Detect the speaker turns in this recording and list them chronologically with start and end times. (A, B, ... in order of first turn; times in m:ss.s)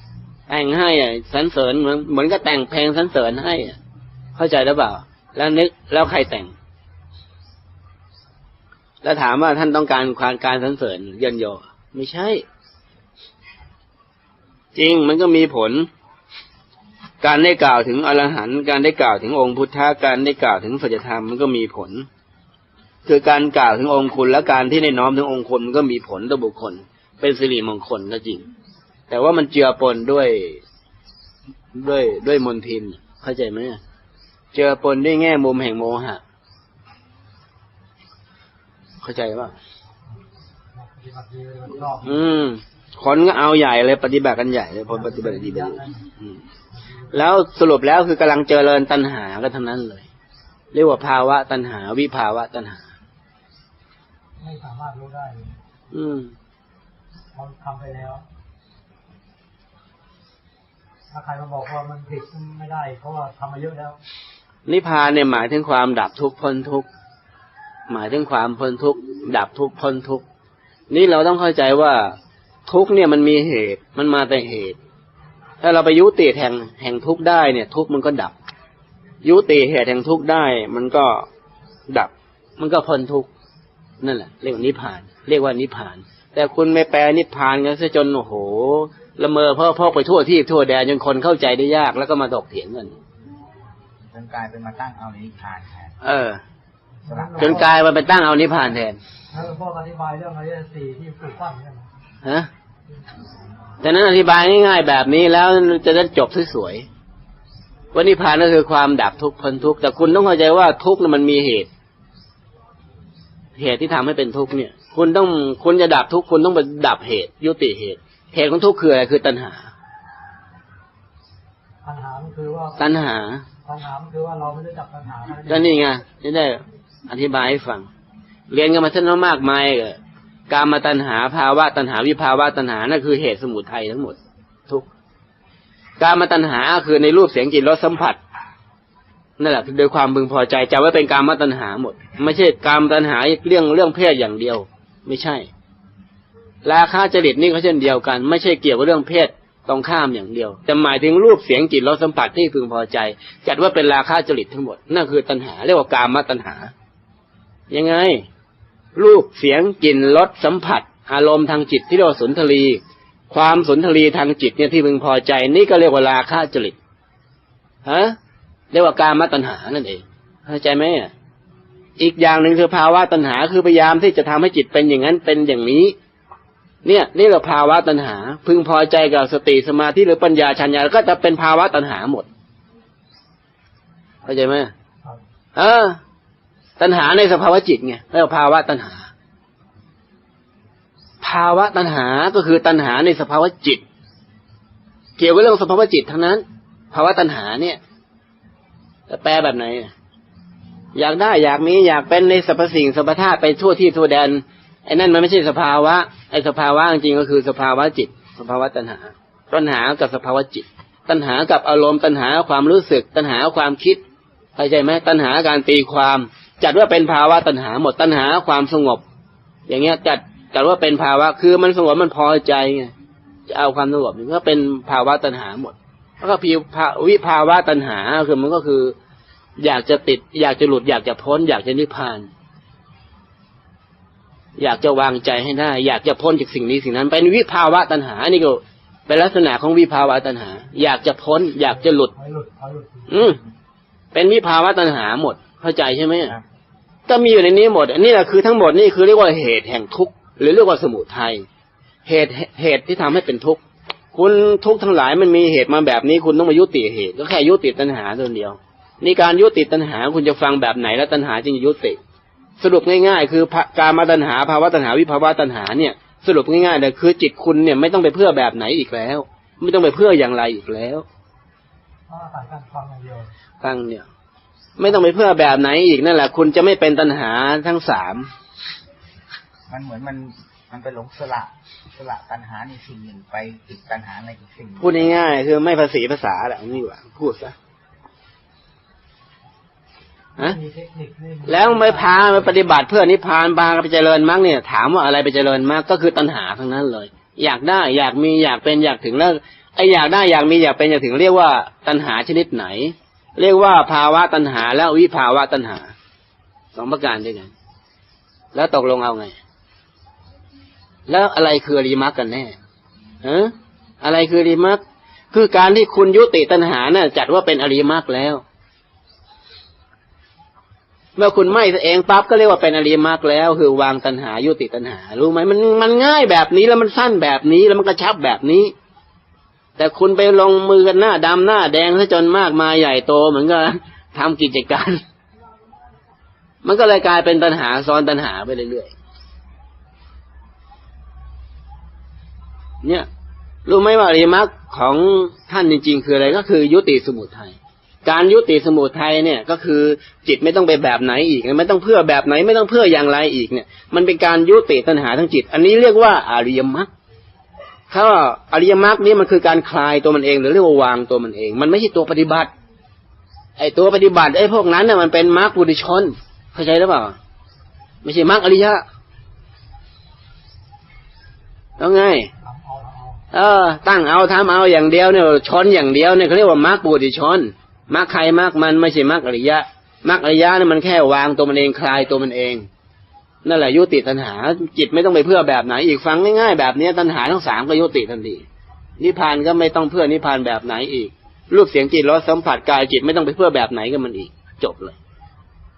0:00.5-0:03.8 A
0:04.4-0:06.5 A
0:09.0-0:12.4 A
0:14.7-0:15.9 A
0:17.2-0:22.1 A
0:23.0-0:28.5 A
0:29.1-0:30.6 A
0:31.7-0:33.8 A
0:34.5-0:36.2 A
0:39.0-0:39.6 A
0:40.7-0:42.3 B
0:42.0-0:46.4 A
0:44.9-0:46.1 B
0:46.7-0:47.1 B
0:47.1-0:50.0 A
0:50.7-0:52.8 A
0:54.4-0:55.5 B
0:55.9-0:56.3 A
0:57.3-0:58.2 B
1:01.1-1:04.0 B
1:04.6-1:06.8 A
1:07.9-1:10.2 A
1:10.9-1:12.1 A
1:12.7-1:14.8 A
1:15.6-1:18.3 A
1:19.2-1:21.3 A
1:21.9-1:23.3 A
1:24.0-1:32.9 A
1:34.0-1:36.0 C
1:36.0-1:36.4 A
1:37.0-1:37.8 B
1:37.1-1:37.6 C
1:37.4-1:39.0 A
1:39.3-1:41.9 B
1:42.2-1:42.5 A
1:43.8-1:46.8 A
1:47.9-1:51.7 A
1:53.6-1:59.7 A
2:01.8-2:02.9 B
2:02.8-2:03.4 A
2:03.6-2:05.8 B
2:05.5-2:07.9 A
2:08.5-2:10.0 A
2:10.5-2:14.2 A
2:16.0-2:18.2 A
2:19.4-2:25.5 A
2:26.6-2:36.7 A
2:37.7-2:38.3 A
2:39.0-2:42.8 A
2:43.3-2:46.8 A
2:47.8-2:48.2 A
2:48.7-2:51.1 A
2:52.0-2:55.9 A
2:56.8-3:02.3 A
3:04.2-3:04.7 A
3:05.5-3:06.0 A
3:06.8-3:09.1 A
3:11.2-3:13.8 A
3:15.2-3:17.8 A
3:19.1-3:19.9 A
3:20.9-3:34.0 A
3:34.6-3:39.0 A
3:39.7-3:42.9 A
3:43.5-3:49.0 A
3:49.6-3:52.3 A
3:54.6-4:02.1 A
4:01.9-4:03.2 B
4:03.1-4:03.4 A
4:04.1-4:06.4 A
4:07.1-4:11.4 A
4:12.0-4:13.6 A
4:14.1-4:22.0 A
4:22.6-4:31.0 A
4:32.1-4:33.3 B
4:33.6-4:34.0 A
4:34.8-4:38.3 A
4:39.7-4:45.2 C
4:44.8-4:47.5 A
4:50.4-4:52.6 B
4:51.4-5:05.9 A
5:06.7-5:07.5 A
5:08.5-5:09.4 A
5:11.1-5:12.6 A
5:13.2-5:18.4 A
5:21.2-5:28.7 A
5:29.8-5:35.0 A
5:36.6-5:38.9 A
5:43.6-5:56.9 A
5:57.9-6:02.5 A
6:03.6-6:07.2 A
6:08.0-6:08.8 A
6:11.8-6:12.3 A
6:12.4-6:13.2 B
6:13.3-6:22.7 A
6:23.4-6:28.4 A
6:29.0-6:35.0 A